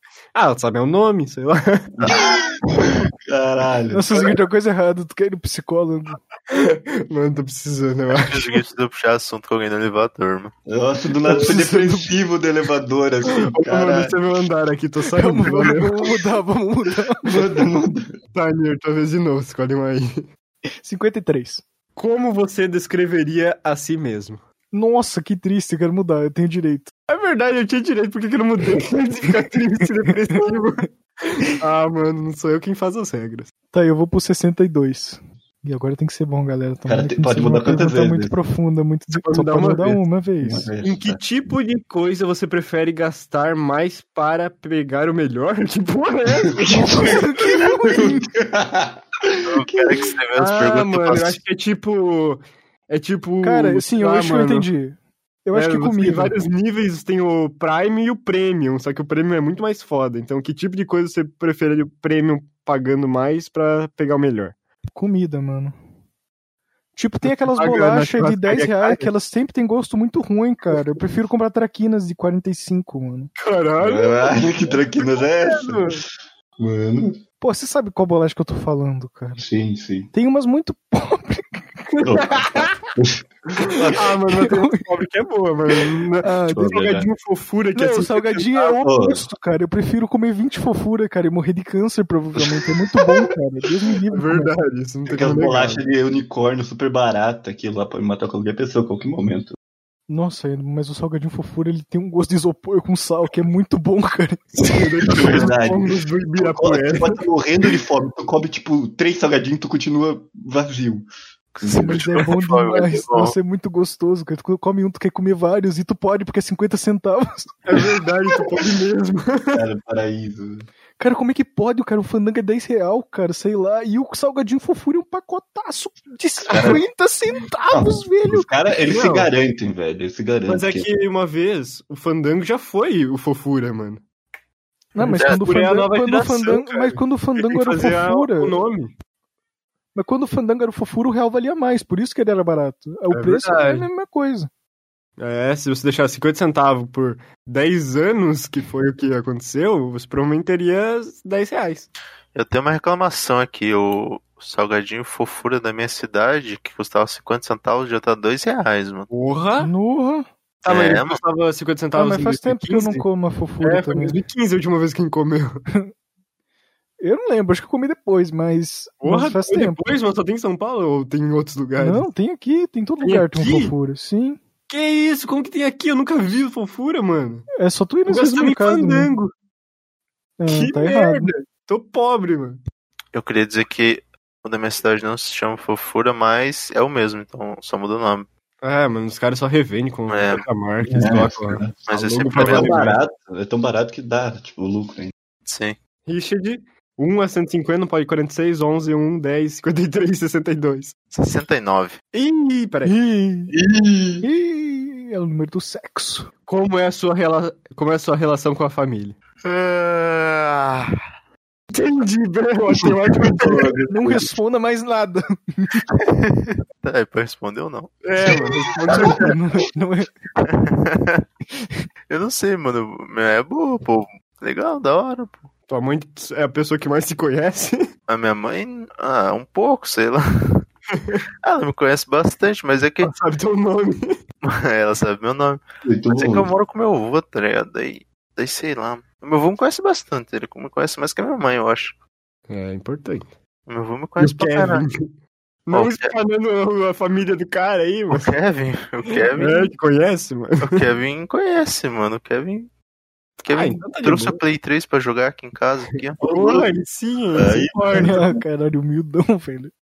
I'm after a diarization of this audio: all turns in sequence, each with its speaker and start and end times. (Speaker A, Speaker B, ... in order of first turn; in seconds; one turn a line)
Speaker A: 0.3-1.9
Speaker B: 2.1-4.1
Speaker C: 3.9-6.2
Speaker A: 6.5-8.6
Speaker D: 8.1-10.5
Speaker B: 10.7-14.2
Speaker C: 11.2-12.1
Speaker A: 13.2-16.0
Speaker C: 15.1-17.5
Speaker B: 17.2-18.1
Speaker A: 18.3-20.2
Speaker C: 20.8-21.6
Speaker A: 22.0-24.4
Speaker C: 24.7-26.9
Speaker A: 27.1-30.9
Speaker A: 31.6-33.5
Speaker C: 33.7-40.7
Speaker B: 36.9-38.4
Speaker A: 39.1-40.0
Speaker B: 40.4-41.2
Speaker A: 40.8-46.6
Speaker B: 46.5-49.9
Speaker C: 46.7-48.2
Speaker D: 49.4-51.4
Speaker A: 50.4-54.7
Speaker C: 53.4-56.4
Speaker A: 55.5-64.6
Speaker C: 64.9-65.8
Speaker C: 67.0-73.3
Speaker A: 67.2-69.1
Speaker A: 73.4-76.0
Speaker B: 73.8-76.0
Speaker B: 76.6-77.2
Speaker C: 77.4-79.4
Speaker B: 79.4-80.1
Speaker C: 80.1-81.7
Speaker A: 82.0-82.7
Speaker B: 82.0-82.4
Speaker B: 83.0-84.1
Speaker A: 83.9-88.8
Speaker C: 84.3-84.8
Speaker C: 86.2-87.0
Speaker B: 86.5-87.1
Speaker C: 87.7-94.5
Speaker B: 88.8-89.2
Speaker A: 94.1-95.9
Speaker B: 95.1-99.5
Speaker C: 100.1-104.8
Speaker A: 104.6-107.2
Speaker B: 105.1-111.1
Speaker D: 111.5-113.3
Speaker B: 111.6-112.0
Speaker C: 111.7-117.7
Speaker A: 117.7-119.6
Speaker B: 119.5-120.7
Speaker C: 121.0-128.5
Speaker B: 126.5-126.8
Speaker A: 126.5-126.8
Speaker B: 127.7-130.9
Speaker A: 128.9-129.3
Speaker A: 130.5-134.0
Speaker C: 134.9-138.6
Speaker A: 135.0-138.9
Speaker D: 135.1-135.4
Speaker C: 139.9-144.5
Speaker A: 143.1-143.9
Speaker A: 145.2-151.9
Speaker D: 152.3-159.1
Speaker A: 159.1-159.7
Speaker C: 159.6-160.3
Speaker A: 160.6-163.1
Speaker D: 160.7-161.2
Speaker C: 161.9-164.2
Speaker A: 163.6-165.6
Speaker C: 167.0-170.0
Speaker A: 169.0-172.1
Speaker C: 171.8-174.4
Speaker A: 173.0-173.7
Speaker A: 174.7-177.5
Speaker C: 177.6-179.1
Speaker A: 178.1-179.3
Speaker C: 180.4-181.3
Speaker A: 180.5-182.6
Speaker D: 183.1-188.3
Speaker A: 188.6-193.0
Speaker D: 190.1-190.4
Speaker B: 190.9-191.7
Speaker D: 191.9-192.9
Speaker B: 192.3-195.1
Speaker D: 195.5-195.8
Speaker A: 196.1-200.9
Speaker D: 201.1-202.0
Speaker A: 202.1-202.9
Speaker C: 202.8-203.6
Speaker B: 203.5-204.3
Speaker C: 204.2-206.3
Speaker A: 206.5-209.2
Speaker D: 209.4-210.9
Speaker A: 211.7-213.7
Speaker B: 213.2-214.4
Speaker C: 213.8-215.8
Speaker D: 215.9-218.1
Speaker A: 218.0-219.3
Speaker C: 219.0-220.1
Speaker D: 220.5-221.2
Speaker D: 222.1-225.5
Speaker A: 225.7-227.8
Speaker D: 228.1-230.7
Speaker D: 231.4-233.1
Speaker A: 233.0-234.1
Speaker D: 234.5-241.9
Speaker B: 235.8-236.5
Speaker A: 242.5-243.3
Speaker D: 243.7-244.8
Speaker A: 244.2-245.1
Speaker A: 245.7-248.3
Speaker D: 245.7-246.1
Speaker D: 248.1-249.7
Speaker A: 249.3-250.8
Speaker D: 250.6-252.7
Speaker A: 253.4-254.4
Speaker D: 253.5-256.2
Speaker A: 256.2-258.3
Speaker B: 256.2-256.7
Speaker B: 257.4-258.2
Speaker C: 257.9-259.7